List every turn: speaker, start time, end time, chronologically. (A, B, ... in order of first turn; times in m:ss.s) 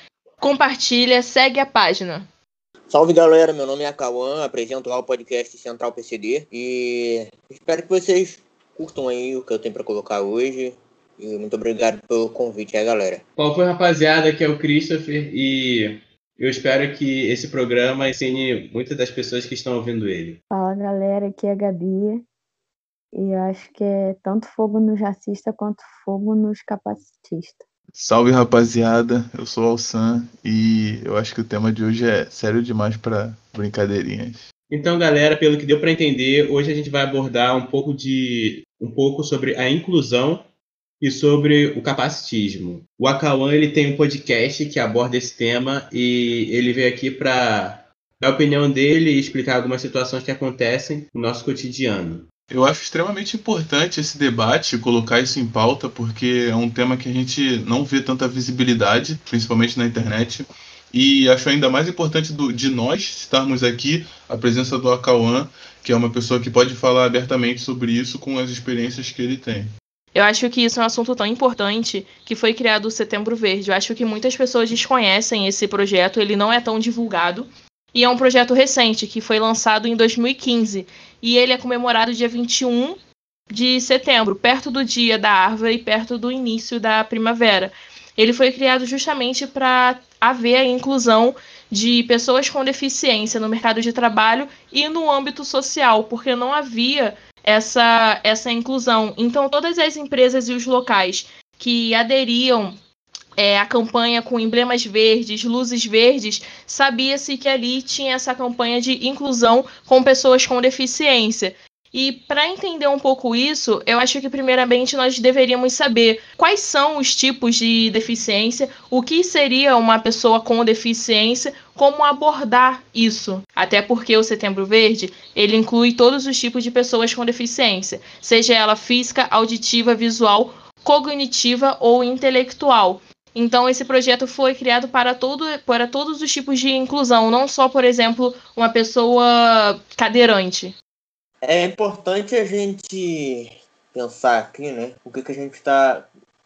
0:00.4-0:02.2 A
0:02.9-0:13.2 B
0:13.4-0:20.4 C
0:20.5-0:22.2 D
0:23.1-0:27.6 D
0:27.9-0:34.4 E
0:34.7-0:40.5 C
0:41.0-0:52.3 C
0:52.5-1:09.7 E
1:10.1-1:23.0 A
1:23.5-1:42.7 A
1:43.4-2:20.8 A
2:21.4-2:26.1 B